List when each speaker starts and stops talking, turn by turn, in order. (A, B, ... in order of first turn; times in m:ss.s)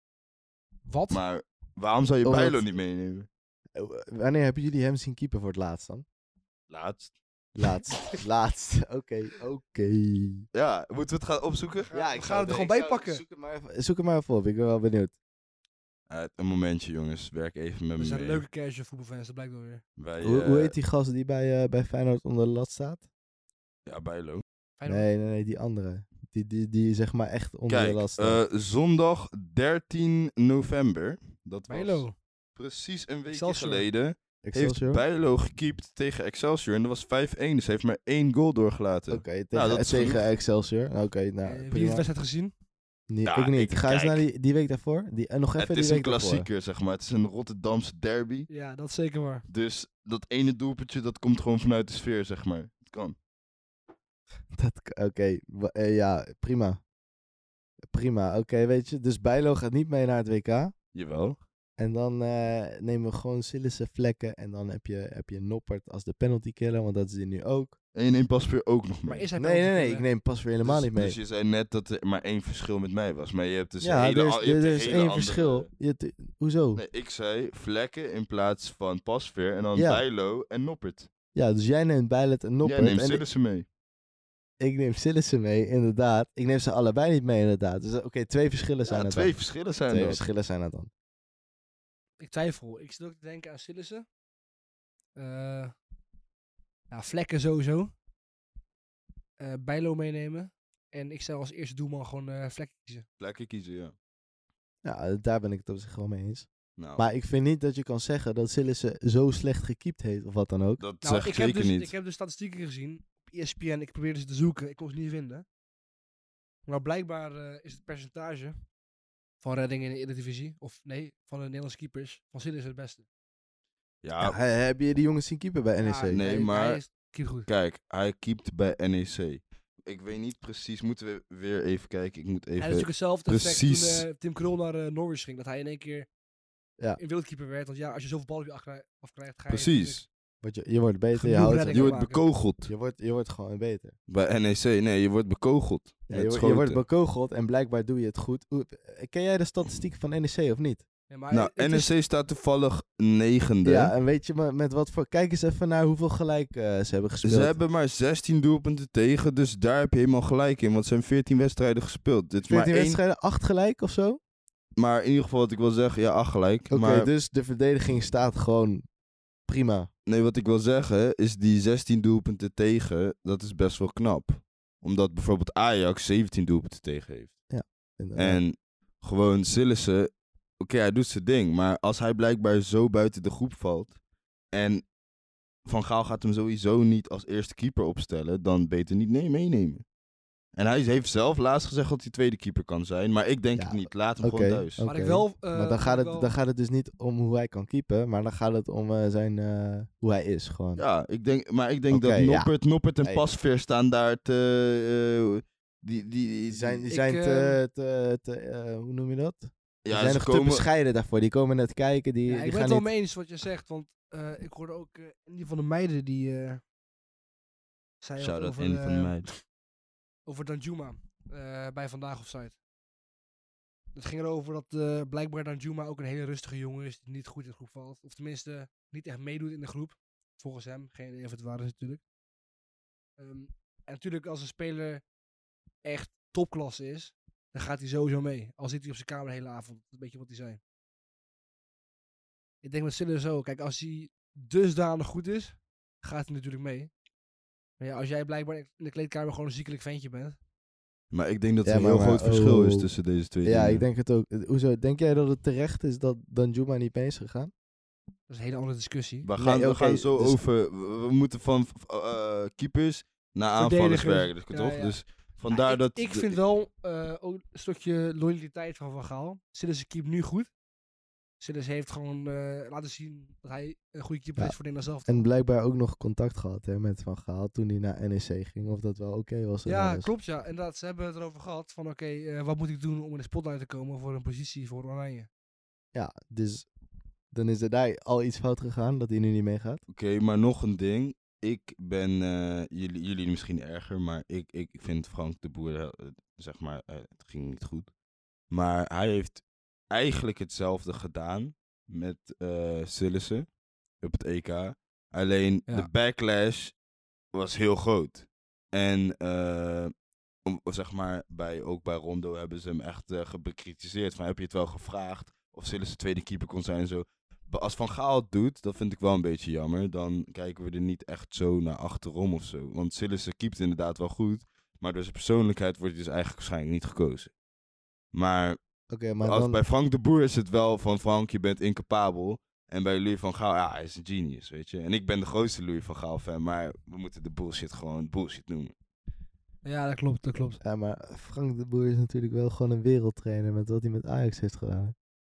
0:00.9-0:01.2 A
0:01.1-0:03.3 B
0:02.2-0:02.6 C
0:03.8-0:06.0 C
0:06.7-0:07.1 B
0:07.6-0:10.5 C
0:10.5-0:11.9 B
0:11.9-0:13.2 A
0:11.9-0:15.1 C
0:16.1-0:18.4 B
0:18.0-0:19.8 A
0:20.0-0:20.8 B
0:20.2-0:23.0 C
0:23.8-0:24.4 B
0:24.8-0:25.1 A
0:24.9-0:28.4 C
0:27.7-0:40.2 B
0:31.7-0:32.1 A
0:33.3-0:33.8 A
0:34.4-0:35.0 C
0:39.1-0:42.0 C
0:41.4-0:42.5 A
0:43.1-0:46.5 C
0:43.2-0:44.2 B
0:45.6-0:48.5 B
0:48.5-0:49.4 A
0:49.5-0:53.2 B
0:54.5-0:56.8 C
0:57.9-1:00.7 C
1:00.9-1:01.4 B
1:01.8-1:07.7 C
1:07.9-1:09.3 B
1:09.1-1:10.0 A
1:09.4-1:11.2 C
1:10.6-1:15.7 B
1:13.8-1:16.8 C
1:16.7-1:21.1 B
1:19.7-1:20.0 C
1:21.3-1:23.2 C
1:22.6-1:23.6 B
1:24.6-1:30.9 C
1:28.9-1:30.2 B
1:32.2-1:34.0 A
1:35.2-1:35.7 A
1:36.9-1:37.9 A
1:39.4-1:43.0 A
1:43.2-1:43.9 B
1:44.8-1:50.8 C
1:46.8-1:47.0 B
1:50.8-1:51.9 B
1:51.0-1:55.4 A
1:56.6-1:58.6 A
1:59.4-2:03.0 A
2:04.0-2:04.4 B
2:04.2-2:06.3 C
2:05.8-2:07.5 A
2:06.1-2:06.8 B
2:07.4-2:14.1 B
2:12.6-2:16.1 A
2:17.0-2:20.0 A
2:19.5-2:20.0 B
2:20.4-2:21.9 C
2:21.1-2:22.2 A
2:21.7-2:22.7 B
2:22.6-2:24.0 C
2:24.1-2:26.8 B
2:26.1-2:30.8 C
2:31.1-2:31.9 A
2:31.3-2:33.9 B
2:33.6-2:37.6 C
2:37.2-2:43.0 B
2:42.4-2:44.2 C
2:44.8-2:47.1 B
2:46.7-2:48.9 C
2:49.4-2:49.9 C
2:50.0-2:57.4 B
2:57.5-2:58.4 C
2:58.2-3:04.0 B
3:04.5-3:04.8 B
3:05.6-3:09.8 B
3:10.6-3:14.8 B
3:13.6-3:20.8 C
3:14.8-3:16.3 A
3:20.8-3:26.8 B
3:21.9-3:23.2 C
3:26.5-3:32.9 C
3:26.9-3:27.6 A
3:29.8-3:30.6 B
3:32.3-3:36.6 A
3:38.0-3:39.2 A
3:38.2-3:39.3 B
3:40.2-3:42.6 A
3:43.9-3:52.0 A
3:53.2-3:55.0 A
3:55.8-4:00.6 A
4:02.6-4:06.9 A
4:07.8-4:10.4 A
4:11.1-4:13.8 B
4:11.6-4:12.9 C
4:13.4-4:17.5 C
4:18.3-4:19.3 A
4:19.2-4:26.4 B
4:19.4-4:20.4 C
4:23.6-4:30.5 A
4:31.4-4:35.2 A
4:35.1-4:40.1 C
4:39.6-4:45.3 A
4:45.9-4:46.7 C
4:47.3-4:49.8 C
4:49.9-4:57.9 B
4:58.5-5:03.5 B
5:04.0-5:06.7 B
5:07.3-5:09.9 B
5:10.4-5:27.3 B
5:28.1-5:28.6 B
5:28.9-5:29.6 C
5:29.2-5:38.7 B
5:39.6-5:40.6 A
5:40.6-5:44.9 C